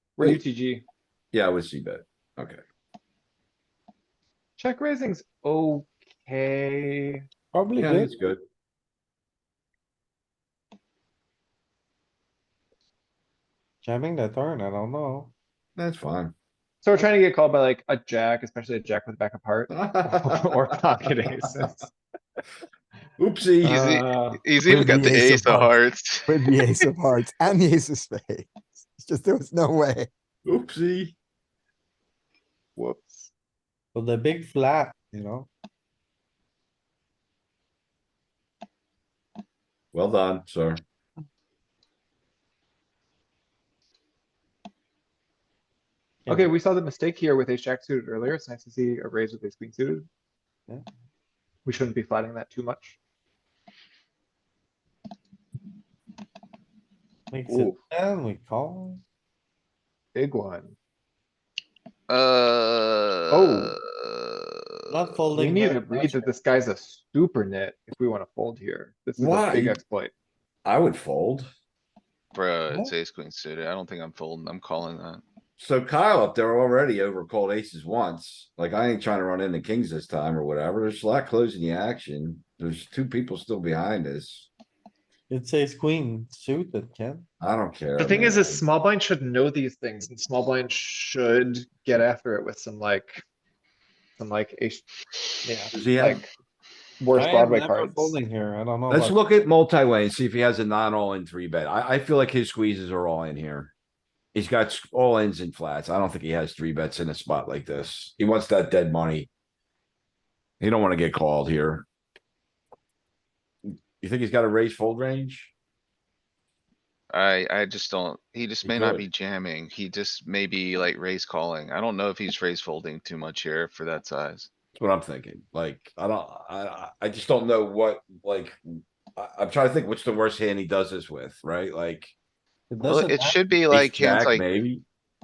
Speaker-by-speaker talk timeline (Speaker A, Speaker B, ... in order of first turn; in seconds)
Speaker A: 0.2-0.8, 4.6-7.2, 16.8-21.9, 23.6-24.4, 32.8-33.3, 46.3-50.1, 51.6-53.0, 60.1-60.8, 63.3-63.7, 65.3-70.1, 88.0-93.2, 94.2-94.8, 95.4-96.3, 97.0-98.2
Speaker B: 1.3-2.6, 7.8-8.4, 15.8-16.3, 19.7-20.5, 23.2-23.8, 30.4-31.1, 39.9-40.8, 57.5-57.7, 69.2-69.8, 70.6-71.5, 75.6-84.5, 87.4-88.6, 95.7-96.2, 98.9-103.7, 104.3-109.3, 110.6-111.9, 113.7-115.5, 118.6-119.1, 124.7-132.1, 133.7-134.8
Speaker C: 7.5-8.2, 13.8-15.3, 33.9-35.5, 46.2-46.5, 57.3-59.0, 64.9-66.3, 85.3-87.2, 97.1-99.2, 132.7-133.4
Speaker D: 23.7-26.6, 62.1-65.0, 72.3-75.2, 117.1-124.5, 132.8-134.4
Speaker E: 24.6-25.7, 26.3-30.1